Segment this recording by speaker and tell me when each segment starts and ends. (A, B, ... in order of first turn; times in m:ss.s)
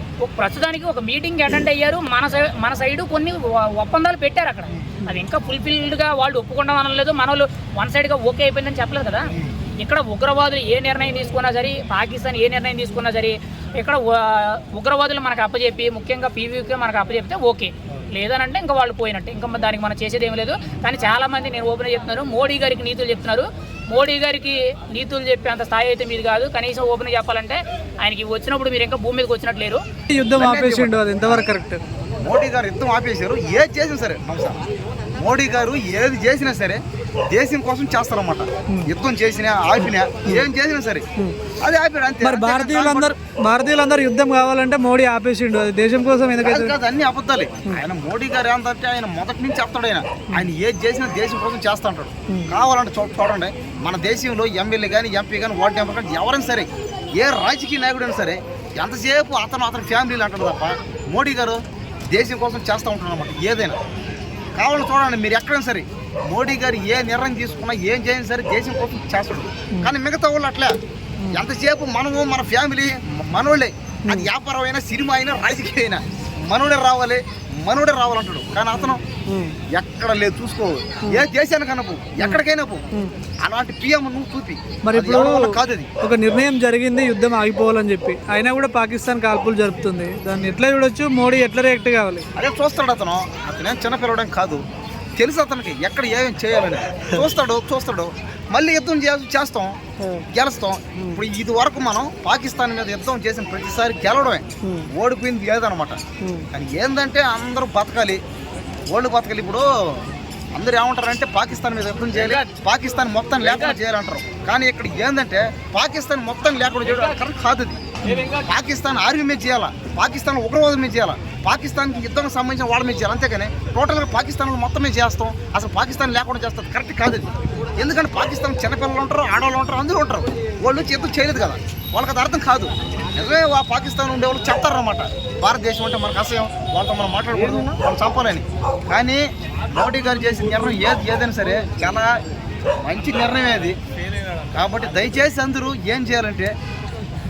0:00.2-0:09.3 A
0:09.8-0:29.8 A
0:30.1-0:31.8 B
0:30.4-0:31.5 C
0:32.2-0:34.6 C
0:35.2-0:41.0 C
0:41.6-0:43.1 C
0:42.2-0:46.7 B
0:46.4-1:03.8 C
1:04.6-1:10.8 C
1:11.3-1:19.0 C
1:18.8-1:19.6 B
1:19.7-1:22.9 C
1:23.4-1:25.9 C
1:24.8-1:32.3 B
1:32.4-1:34.6 C
1:35.2-1:39.8 C
1:40.3-1:44.4 C
1:44.6-1:44.9 B
1:45.0-1:46.0 C
1:46.2-1:46.5 B
1:46.6-1:48.2 C
1:48.9-1:50.0 C
1:50.6-2:22.1 C
2:22.8-2:23.8 C
2:24.5-2:26.5 C